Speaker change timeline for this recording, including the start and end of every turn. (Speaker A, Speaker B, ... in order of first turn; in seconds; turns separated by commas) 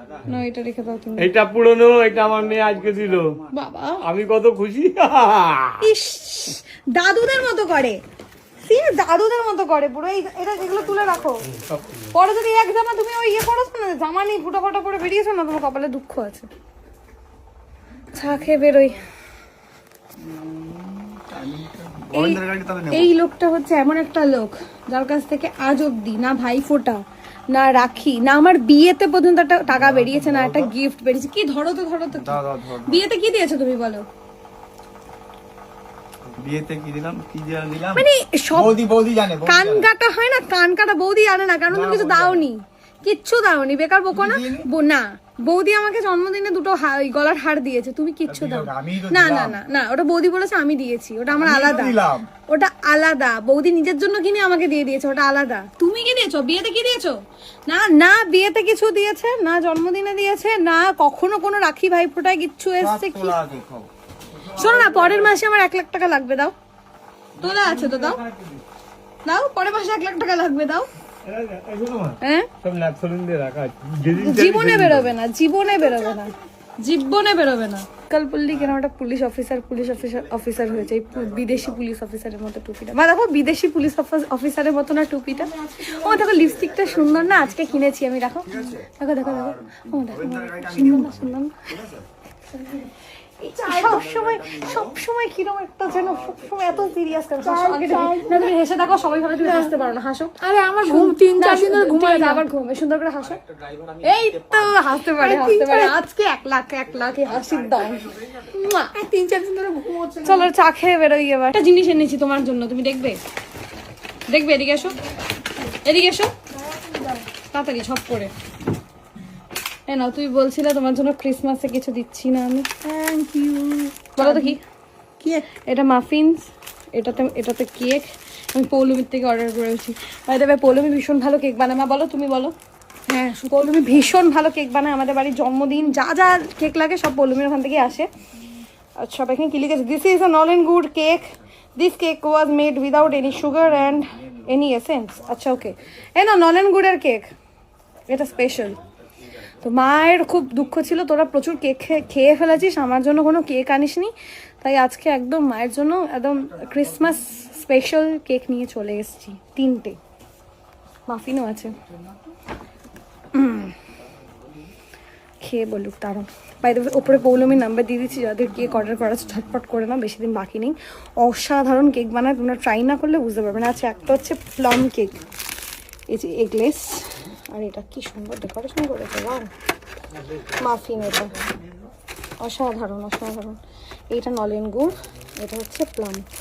Speaker A: 0.3-1.3, Speaker B: 1.2-3.4, Speaker A: 3.5-4.0, Speaker B: 4.0-5.8, Speaker A: 5.8-8.0, Speaker A: 8.6-11.4, Speaker B: 11.4-12.1, Speaker A: 12.1-16.5, Speaker A: 18.1-19.0, Speaker C: 20.2-23.1, Speaker A: 22.1-34.0, Speaker C: 29.9-30.7, Speaker C: 32.1-33.0, Speaker C: 36.3-39.9, Speaker A: 37.9-38.8, Speaker A: 39.4-57.2, Speaker C: 41.7-42.5, Speaker C: 44.1-44.7, Speaker C: 48.3-49.6, Speaker C: 51.3-52.3, Speaker A: 57.7-63.3, Speaker C: 62.8-63.9, Speaker B: 64.4-65.3, Speaker A: 64.5-66.5, Speaker A: 67.4-68.2, Speaker B: 67.4-68.6, Speaker A: 69.3-70.9, Speaker B: 71.2-75.1, Speaker A: 72.2-72.5, Speaker A: 74.2-91.5, Speaker C: 78.5-78.8, Speaker C: 79.9-81.8, Speaker D: 85.3-86.2, Speaker C: 86.3-87.6, Speaker C: 88.5-92.1, Speaker A: 92.5-103.4, Speaker C: 93.7-95.0, Speaker C: 95.9-96.5, Speaker D: 97.4-98.5, Speaker D: 99.4-99.7, Speaker D: 100.4-102.5, Speaker C: 103.5-104.0, Speaker A: 104.0-108.9, Speaker D: 105.0-106.0, Speaker D: 108.6-110.5, Speaker A: 110.2-113.2, Speaker A: 114.3-115.0, Speaker A: 115.8-116.3, Speaker D: 116.5-117.3, Speaker A: 117.5-118.3, Speaker A: 119.9-122.7, Speaker D: 122.8-124.6, Speaker A: 124.2-124.6, Speaker D: 125.2-125.5, Speaker A: 125.7-132.5, Speaker D: 133.1-134.0, Speaker A: 133.5-138.1, Speaker A: 139.0-147.3, Speaker A: 148.1-148.8, Speaker A: 149.6-160.0, Speaker A: 161.1-161.8, Speaker A: 163.3-163.8, Speaker A: 165.4-175.2, Speaker A: 176.1-179.5, Speaker A: 180.5-181.3, Speaker A: 182.4-183.6, Speaker A: 184.1-186.3